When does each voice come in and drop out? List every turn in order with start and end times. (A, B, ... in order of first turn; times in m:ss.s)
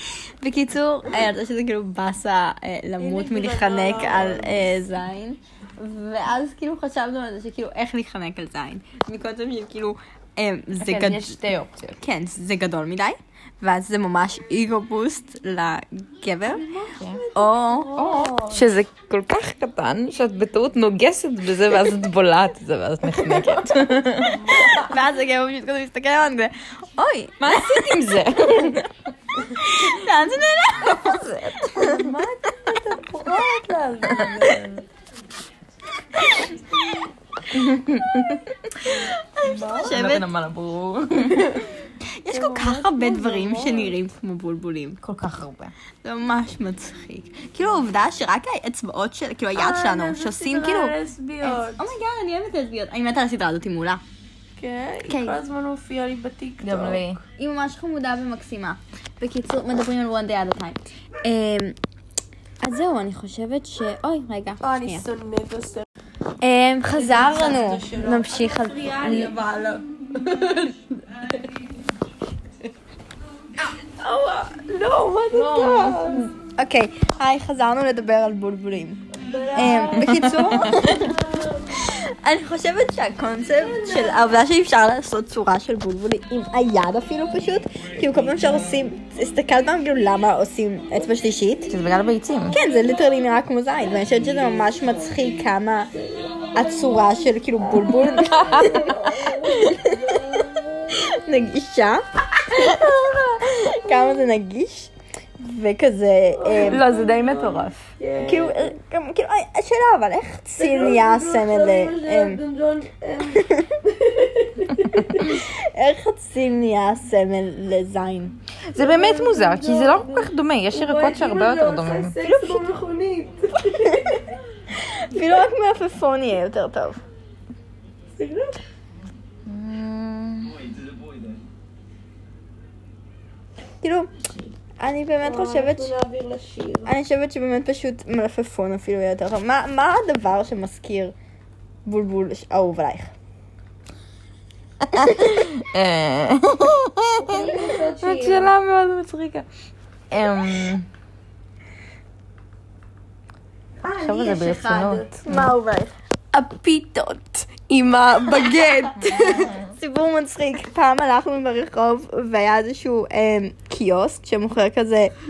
0:00.4-0:11.4 A
0:03.0-0:04.7 B
0:10.8-0:12.0 C
0:12.0-0:16.8 A
0:16.5-0:18.7 B
0:17.0-0:17.2 C
0:17.3-0:18.0 A
0:17.9-0:24.6 C
0:23.3-0:23.6 A
0:24.2-0:25.0 B
0:24.6-0:28.7 A
0:27.4-0:29.0 C
0:29.5-0:31.7 A
0:30.9-0:32.1 C
0:31.7-0:34.9 B
0:34.0-0:34.5 C
0:36.3-0:36.6 A
0:37.5-0:38.4 C
0:37.6-0:38.0 A
0:38.9-0:40.3 A
0:39.0-0:40.0 B
0:39.8-0:41.6 C
0:42.2-0:45.0 A
0:42.3-0:44.0 B
0:45.0-0:45.7 C
0:46.0-0:54.0 A
0:49.6-0:51.9 B
0:54.6-0:57.2 B
0:55.1-0:55.4 A
0:56.6-0:57.2 C
0:57.4-1:01.8 A
1:02.6-1:05.1 A
1:04.6-1:05.9 B
1:06.4-1:09.4 A
1:06.9-1:11.3 B
1:13.8-1:16.3 B
1:15.3-1:21.2 A
1:15.4-1:16.2 C
1:19.2-1:21.7 B
1:20.0-1:21.0 C
1:21.7-1:31.7 A
1:23.5-1:24.4 B
1:31.7-1:32.6 C
1:32.5-1:35.9 A
1:34.0-1:35.2 B
1:35.9-1:41.0 B
1:36.5-1:38.9 A
1:38.0-1:39.4 C
1:39.4-1:46.8 A
1:46.4-1:48.7 B
1:46.6-1:47.8 C
1:48.2-1:52.4 A
1:50.6-1:55.2 B
1:53.3-1:53.7 A
1:55.0-1:58.4 A
1:58.7-2:02.2 C
1:58.8-2:04.3 B
2:02.2-2:02.6 A
2:04.8-2:07.0 A
2:08.2-2:08.6 B
2:09.5-2:10.7 C
2:13.8-2:14.1 A
2:14.8-2:15.9 A
2:15.2-2:16.9 B
2:16.8-2:21.1 A
2:21.8-2:23.1 A
2:24.8-2:29.5 C
2:25.0-2:25.5 A
2:27.2-2:28.5 B
2:30.1-2:30.9 C
2:33.8-2:35.9 A
2:34.0-2:35.6 C
2:34.1-2:35.0 B
2:36.3-2:39.6 B
2:39.0-2:45.1 A
2:39.1-2:39.5 C